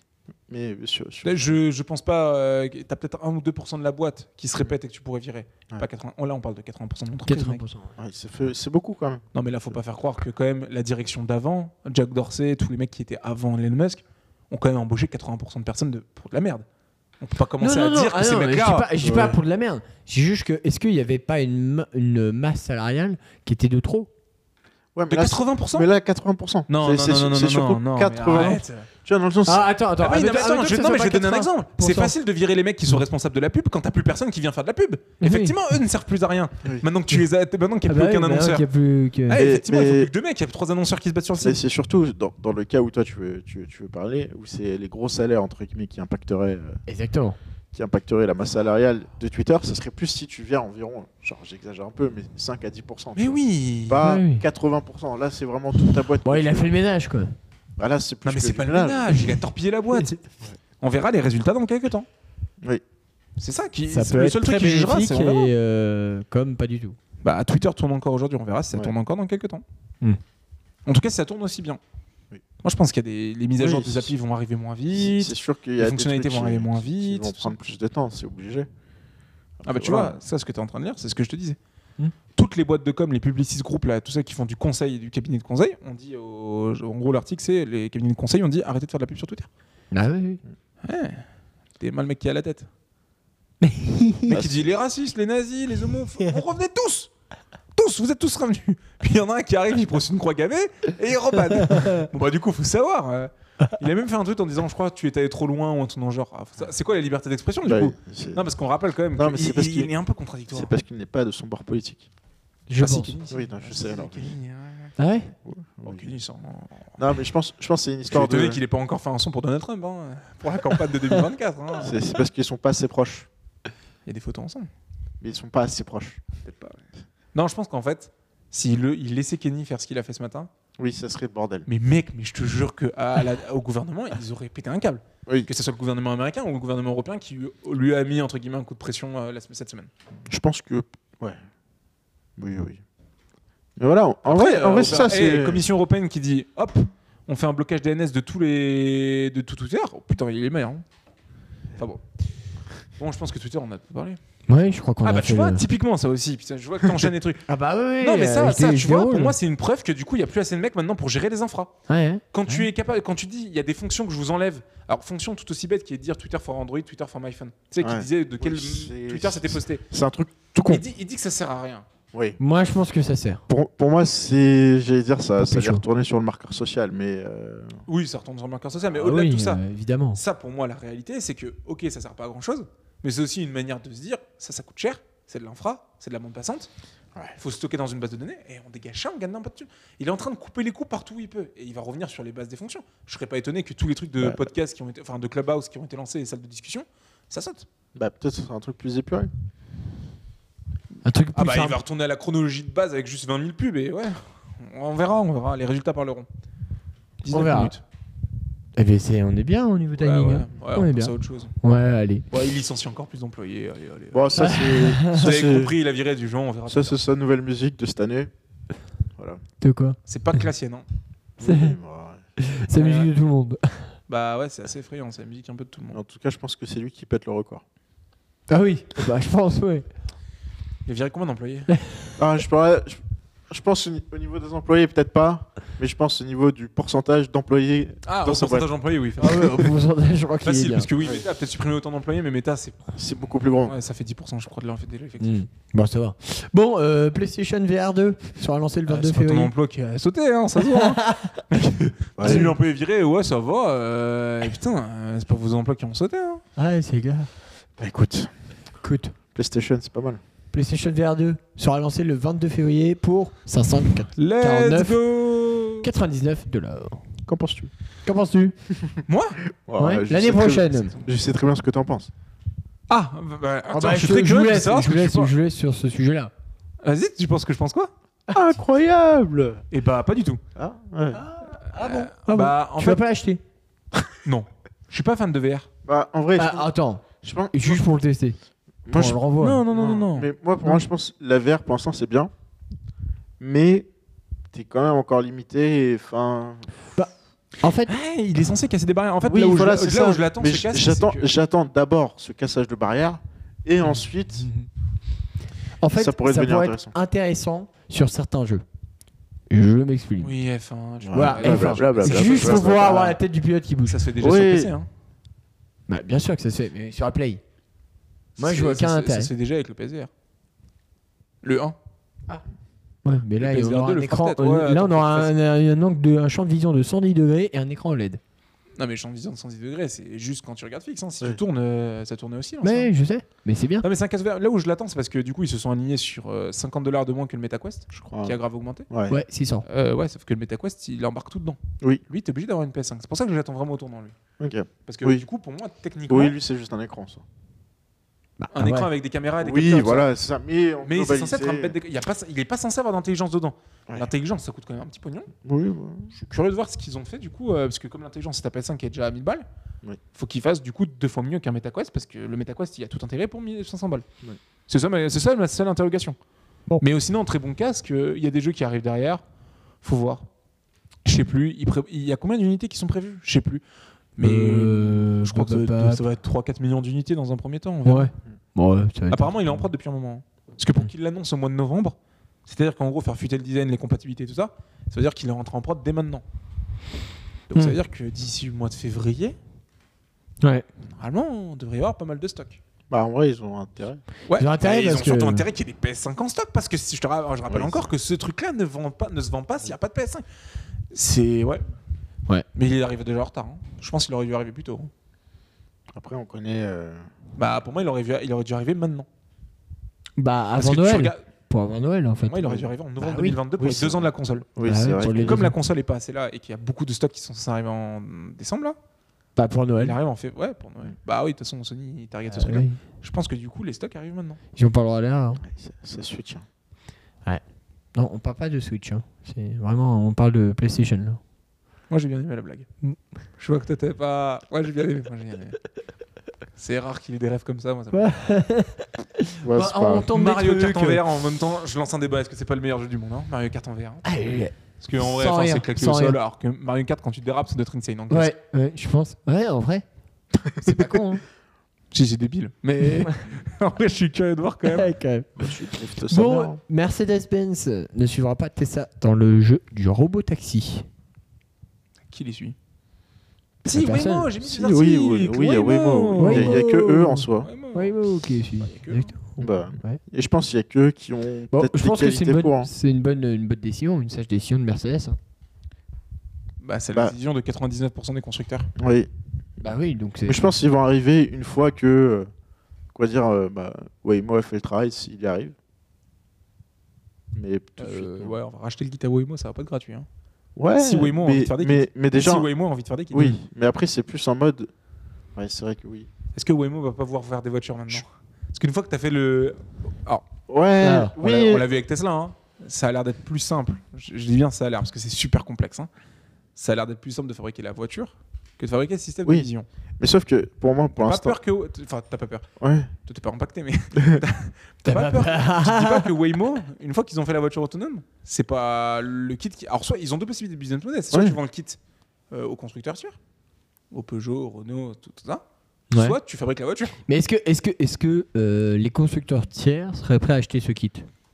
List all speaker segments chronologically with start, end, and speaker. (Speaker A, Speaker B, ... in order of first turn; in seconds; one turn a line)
Speaker A: 0.5-1.5
Speaker B: 1.2-7.6
Speaker C: 7.3-7.9
Speaker A: 8.0-9.3
Speaker B: 9.3-16.6
Speaker B: 17.2-18.9
Speaker C: 17.6-24.1
Speaker A: 19.0-19.4
Speaker A: 25.0-29.6
Speaker B: 25.1-25.9
Speaker B: 26.7-28.9
Speaker C: 28.3-28.6
Speaker C: 29.5-32.1
Speaker B: 30.0-38.7
Speaker C: 35.2-35.6
Speaker C: 37.9-39.4
Speaker B: 39.3-41.6
Speaker A: 39.4-40.1
Speaker A: 41.4-46.8
Speaker C: 46.9-47.4
Speaker A: 47.7-56.7
Speaker B: 53.2-54.0
Speaker C: 54.0-54.4
Speaker C: 56.2-57.4
Speaker A: 57.8-59.2
Speaker B: 58.2-60.1
Speaker B: 60.8-62.1
Speaker B: 63.4-65.5
Speaker C: 63.9-67.0
Speaker B: 67.2-69.6
Speaker B: 70.9-71.8
Speaker B: 72.6-77.6
Speaker A: 73.6-74.1
Speaker A: 74.9-78.7
Speaker A: 79.6-80.2
Speaker B: 79.7-81.6
Speaker B: 82.3-89.5
Speaker C: 89.9-90.4
Speaker B: 90.8-91.2
Speaker B: 91.8-92.7
Speaker C: 93.6-94.4
Speaker B: 94.3-97.1
Speaker A: 94.3-94.6
Speaker B: 97.8-110.7
Speaker C: 101.8-102.0
Speaker A: 107.7-108.5
Speaker A: 109.2-109.9
Speaker A: 110.5-112.1
Speaker C: 112.7-113.2
Speaker B: 112.8-115.0
Speaker A: 113.3-114.3
Speaker C: 115.0-115.3
Speaker A: 115.5-116.1
Speaker B: 115.8-117.0
Speaker A: 117.0-118.6
Speaker B: 118.1-122.0
Speaker A: 121.8-123.3
Speaker B: 124.1-124.7
Speaker A: 125.2-126.5
Speaker B: 126.4-126.8
Speaker B: 127.3-130.5
Speaker A: 130.8-131.7
Speaker B: 131.7-139.9
Speaker A: 140.3-141.4
Speaker A: 142.4-142.8
Speaker A: 143.8-145.6
Speaker B: 144.2-150.8
Speaker B: 151.8-152.0
Speaker B: 153.0-154.2
Speaker C: 154.5-155.7
Speaker B: 155.0-157.4
Speaker C: 157.5-159.3
Speaker B: 158.0-161.7
Speaker C: 161.9-162.7
Speaker B: 162.3-169.8
Speaker A: 167.8-170.8
Speaker B: 170.7-171.9
Speaker A: 172.1-172.4
Speaker C: 172.4-173.4
Speaker A: 173.5-177.8
Speaker C: 175.4-175.8
Speaker B: 177.9-179.6
Speaker C: 178.9-180.2
Speaker B: 180.1-186.7
Speaker B: 187.4-197.7
Speaker A: 197.9-199.3
Speaker C: 201.0-201.8
Speaker B: 201.3-206.3
Speaker B: 207.2-207.8
Speaker C: 207.3-207.8
Speaker C: 208.8-212.3
Speaker B: 210.0-211.6
Speaker B: 212.3-214.4
Speaker A: 214.1-215.8
Speaker C: 214.3-215.3
Speaker B: 215.1-217.0
Speaker A: 216.7-218.3
Speaker C: 219.6-220.4
Speaker B: 220.1-220.9
Speaker A: 221.4-222.2
Speaker C: 221.4-221.7
Speaker C: 222.4-223.9
Speaker B: 222.8-223.1
Speaker B: 224.1-226.0
Speaker A: 225.9-227.6
Speaker C: 228.5-229.9
Speaker B: 230.9-231.7
Speaker C: 231.7-232.2
Speaker A: 232.2-238.7
Speaker B: 238.1-239.8
Speaker C: 239.2-240.9
Speaker B: 240.4-242.8
Speaker A: 242.9-243.8
Speaker B: 243.7-245.5
Speaker C: 245.2-249.5
Speaker B: 248.9-256.4
Speaker C: 250.6-251.4
Speaker A: 252.2-252.5
Speaker C: 256.6-257.3
Speaker A: 257.8-258.3
Speaker C: 258.8-259.1
Speaker A: 259.4-260.2
Speaker C: 260.5-265.0
Speaker B: 264.2-265.9
Speaker C: 265.8-267.0
Speaker A: 267.3-267.7
Speaker C: 268.1-268.6
Speaker B: 269.1-269.4
Speaker A: 269.7-272.1
Speaker C: 269.8-271.0
Speaker B: 272.9-275.3
Speaker C: 273.7-276.3
Speaker B: 276.8-277.9
Speaker A: 278.3-279.6
Speaker B: 279.7-280.4
Speaker A: 280.6-281.2
Speaker C: 281.1-283.4
Speaker B: 281.7-283.0
Speaker B: 284.2-285.7
Speaker A: 285.9-286.7
Speaker C: 286.4-288.4
Speaker A: 287.2-287.8
Speaker A: 288.9-292.3
Speaker C: 288.9-289.6
Speaker B: 289.4-290.3
Speaker A: 293.4-293.9
Speaker A: 294.5-296.8
Speaker C: 297.0-297.9
Speaker B: 297.9-301.3
Speaker A: 299.2-304.5
Speaker C: 305.8-308.6
Speaker A: 305.9-306.9
Speaker C: 309.5-310.4
Speaker B: 310.2-313.0
Speaker A: 311.0-313.2
Speaker C: 311.1-314.0
Speaker B: 313.9-314.9
Speaker A: 314.2-314.7
Speaker C: 315.9-317.4
Speaker C: 318.4-319.3
Speaker B: 318.4-320.1
Speaker B: 321.4-321.8
Speaker C: 323.0-328.2
Speaker B: 323.4-325.3
Speaker B: 328.8-332.9
Speaker C: 332.6-333.9
Speaker B: 333.8-338.9
Speaker A: 338.0-338.4
Speaker A: 338.9-339.2
Speaker C: 339.1-339.7
Speaker B: 339.7-344.1
Speaker A: 344.4-345.2
Speaker B: 344.9-346.4
Speaker A: 346.1-347.2
Speaker C: 348.4-348.9
Speaker B: 348.5-350.1
Speaker A: 349.4-351.8
Speaker B: 350.8-355.3
Speaker A: 355.4-356.1
Speaker B: 356.1-359.4
Speaker B: 360.1-364.1
Speaker B: 364.7-366.2
Speaker B: 366.8-369.2
Speaker B: 369.8-370.3
Speaker B: 371.1-373.6
Speaker B: 374.2-378.1
Speaker C: 374.2-376.0
Speaker C: 377.9-379.6
Speaker B: 379.1-386.2
Speaker B: 387.5-389.4
Speaker B: 390.9-392.6
Speaker A: 392.9-394.0
Speaker B: 394.3-400.2
Speaker C: 394.4-395.5
Speaker A: 397.5-397.9
Speaker B: 400.9-401.6
Speaker B: 402.6-404.9
Speaker A: 405.9-407.1
Speaker B: 407.4-409.1
Speaker C: 410.2-413.4
Speaker B: 410.6-411.2
Speaker B: 412.3-414.5
Speaker A: 413.6-415.4
Speaker C: 414.6-415.5
Speaker B: 415.2-418.8
Speaker C: 419.4-420.0
Speaker B: 419.8-424.4
Speaker C: 422.3-422.8
Speaker C: 424.6-425.4
Speaker A: 425.5-426.4
Speaker C: 427.9-431.2
Speaker B: 431.9-432.7
Speaker B: 433.4-435.6
Speaker B: 436.6-438.1
Speaker C: 437.9-441.0
Speaker A: 439.4-440.1
Speaker B: 440.1-448.3
Speaker C: 444.0-446.2
Speaker C: 448.1-449.9
Speaker C: 450.6-451.2
Speaker B: 451.9-454.9
Speaker C: 454.7-455.5
Speaker A: 455.4-456.6
Speaker C: 456.1-460.9
Speaker B: 462.1-462.6
Speaker B: 463.6-466.6
Speaker C: 463.7-464.3
Speaker A: 464.4-467.5
Speaker C: 466.2-470.0
Speaker B: 467.4-468.0
Speaker B: 468.6-469.1
Speaker A: 469.4-472.7
Speaker C: 471.5-475.2
Speaker B: 476.6-478.7
Speaker A: 478.8-479.1
Speaker C: 479.6-480.5
Speaker A: 480.3-482.3
Speaker A: 482.9-485.6
Speaker A: 487.4-488.3
Speaker B: 487.8-490.1
Speaker A: 490.6-492.5
Speaker B: 490.8-493.4
Speaker A: 493.1-494.7
Speaker A: 495.4-496.1
Speaker B: 496.4-500.2
Speaker A: 500.5-501.7
Speaker C: 500.8-501.2
Speaker B: 501.2-505.9
Speaker B: 506.6-509.7
Speaker A: 510.0-511.4
Speaker B: 511.0-512.5
Speaker A: 512.6-512.9
Speaker B: 513.0-521.8
Speaker A: 514.0-514.2
Speaker C: 514.9-516.1
Speaker A: 521.1-521.4
Speaker B: 522.3-523.2
Speaker B: 523.9-527.0
Speaker C: 525.9-526.2
Speaker C: 527.1-531.1